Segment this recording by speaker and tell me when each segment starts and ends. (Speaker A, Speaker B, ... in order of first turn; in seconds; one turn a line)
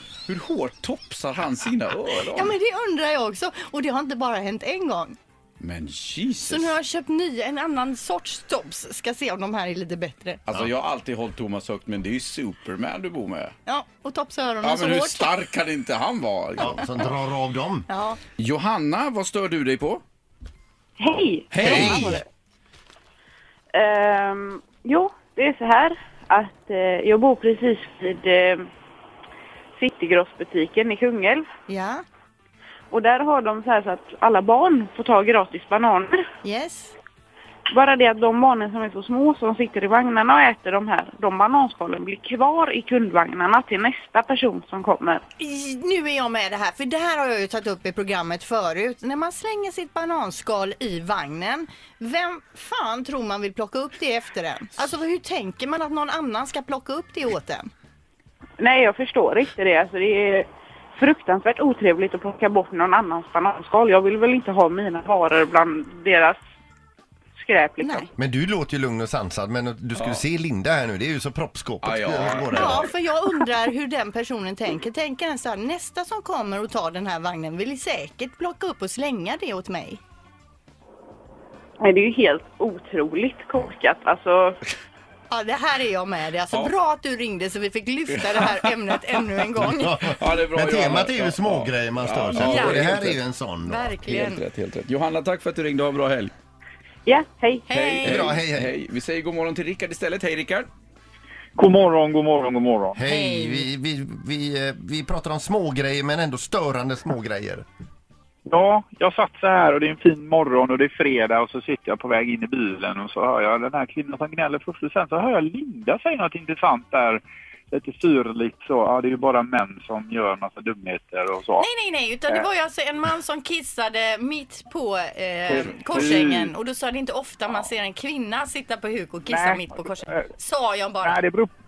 Speaker A: 0.3-2.5
Speaker B: 2.3-5.2
Speaker A: 5.6-6.8
Speaker B: 6.5-10.4
Speaker A: 10.5-13.5
Speaker B: 13.7-15.3
Speaker A: 14.6-16.8
Speaker C: 16.6-17.9
Speaker B: 17.9-18.2
Speaker A: 18.4-20.0
Speaker D: 21.0-22.2
Speaker A: 21.5-22.2
Speaker B: 21.6-22.2
Speaker C: 21.7-22.1
Speaker D: 23.7-28.6
Speaker D: 29.8-31.5
Speaker B: 31.7-32.0
Speaker D: 32.9-36.2
Speaker B: 36.4-36.9
Speaker D: 37.7-45.2
Speaker B: 45.4-57.7
Speaker D: 58.6-60.5
Speaker D: 61.0-66.4
Speaker D: 67.4-68.1
Speaker C: 68.2-72.9
Speaker A: 70.0-70.2
Speaker A: 71.8-72.8
Speaker B: 72.5-80.0
Speaker D: 81.8-84.6
Speaker B: 85.3-90.1
Speaker A: 88.1-89.2
Speaker C: 89.7-93.9
Speaker A: 90.0-93.2
Speaker B: 92.4-92.9
Speaker B: 93.7-94.4
Speaker A: 94.0-96.3
Speaker D: 97.1-97.7
Speaker B: 97.7-98.3
Speaker A: 97.7-100.7
Speaker C: 98.0-98.7
Speaker E: 101.6-103.0
Speaker C: 103.0-107.7
Speaker B: 103.0-103.7
Speaker E: 108.5-121.7
Speaker B: 121.6-131.2
Speaker E: 125.5-126.5
Speaker E: 129.3-130.3
Speaker E: 131.0-131.5